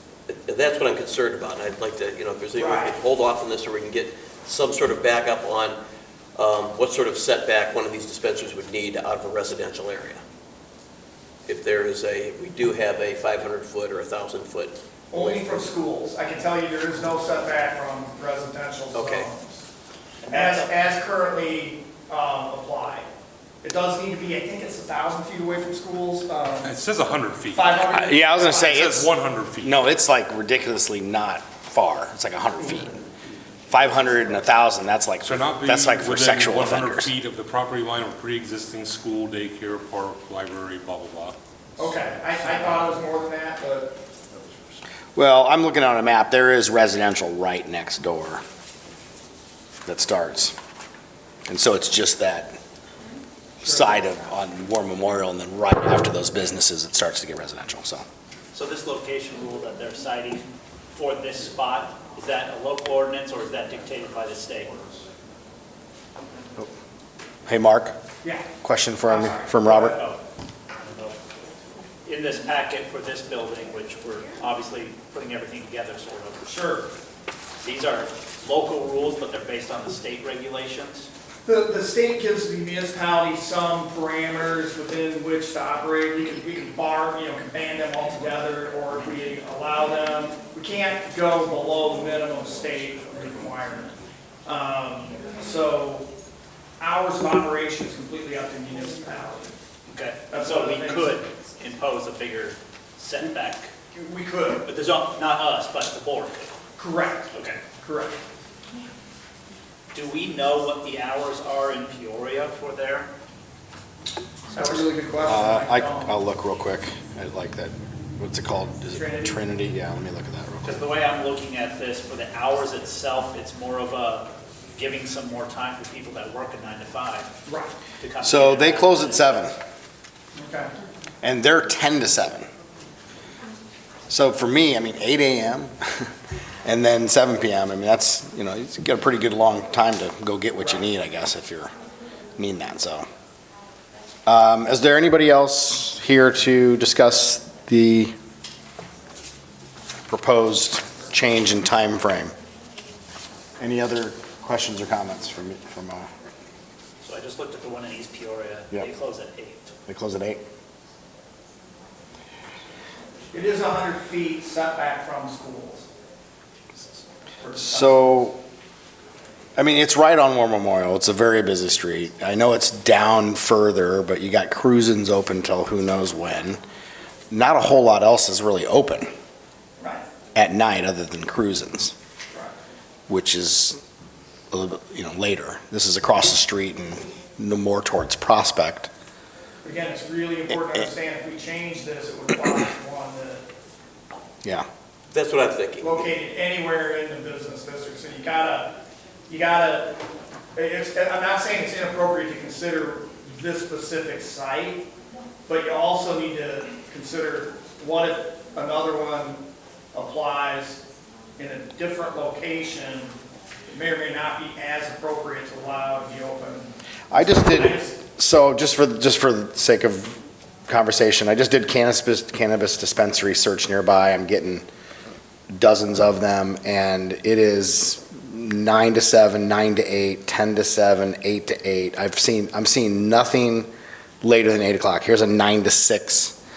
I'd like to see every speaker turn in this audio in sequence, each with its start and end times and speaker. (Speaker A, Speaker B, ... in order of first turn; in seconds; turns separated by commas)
Speaker A: 0.3-5.8, Speaker B: 2.6-3.0, Speaker A: 6.4-10.2, Speaker A: 11.5-15.4, Speaker B: 15.1-19.6, Speaker A: 18.9-19.3, Speaker C: 20.2-20.7, Speaker B: 20.3-23.1, Speaker B: 23.6-26.7, Speaker D: 26.6-29.8, Speaker B: 27.5-28.8, Speaker E: 27.9-33.0, Speaker E: 33.7-37.1, Speaker D: 35.2-41.8, Speaker B: 41.8-44.0, Speaker E: 45.1-48.4, Speaker E: 49.9-50.6, Speaker E: 51.5-52.6, Speaker B: 53.6-54.2, Speaker E: 53.6-58.1, Speaker C: 58.5-64.8, Speaker E: 67.5-68.0, Speaker B: 68.2-68.5, Speaker E: 68.6-70.0, Speaker B: 69.1-69.9, Speaker C: 69.7-71.2, Speaker C: 72.0-76.4, Speaker B: 76.4-76.9, Speaker C: 77.6-81.1, Speaker B: 81.5-93.9, Speaker B: 94.5-96.1, Speaker B: 96.8-99.5, Speaker C: 99.9-103.7, Speaker B: 100.3-101.1, Speaker B: 103.9-104.7, Speaker C: 104.6-106.5, Speaker B: 106.8-108.2, Speaker C: 107.3-107.6, Speaker C: 109.9-113.1, Speaker B: 114.5-116.2, Speaker E: 115.2-120.8, Speaker B: 118.9-119.4, Speaker C: 120.6-127.3, Speaker B: 127.5-127.7, Speaker C: 128.0-129.5, Speaker E: 128.2-129.6, Speaker B: 130.3-130.7, Speaker E: 131.2-132.5, Speaker E: 134.1-136.1, Speaker E: 136.6-141.7, Speaker E: 142.4-143.1, Speaker E: 144.3-148.1, Speaker E: 150.1-152.3, Speaker E: 153.6-156.1, Speaker C: 157.0-159.7, Speaker E: 159.9-160.4, Speaker B: 163.3-165.9, Speaker B: 167.4-168.1, Speaker E: 167.6-168.4, Speaker E: 169.6-176.6, Speaker E: 177.3-179.1, Speaker B: 179.8-180.1, Speaker E: 180.4-181.9, Speaker E: 183.1-183.8, Speaker E: 184.5-188.9, Speaker B: 189.6-193.5, Speaker A: 195.1-196.1, Speaker B: 195.8-198.8, Speaker B: 199.3-200.0, Speaker B: 200.6-204.9, Speaker B: 205.5-210.8, Speaker B: 211.4-213.2, Speaker B: 213.7-218.0, Speaker E: 217.1-224.7, Speaker E: 225.5-233.7, Speaker E: 234.2-236.4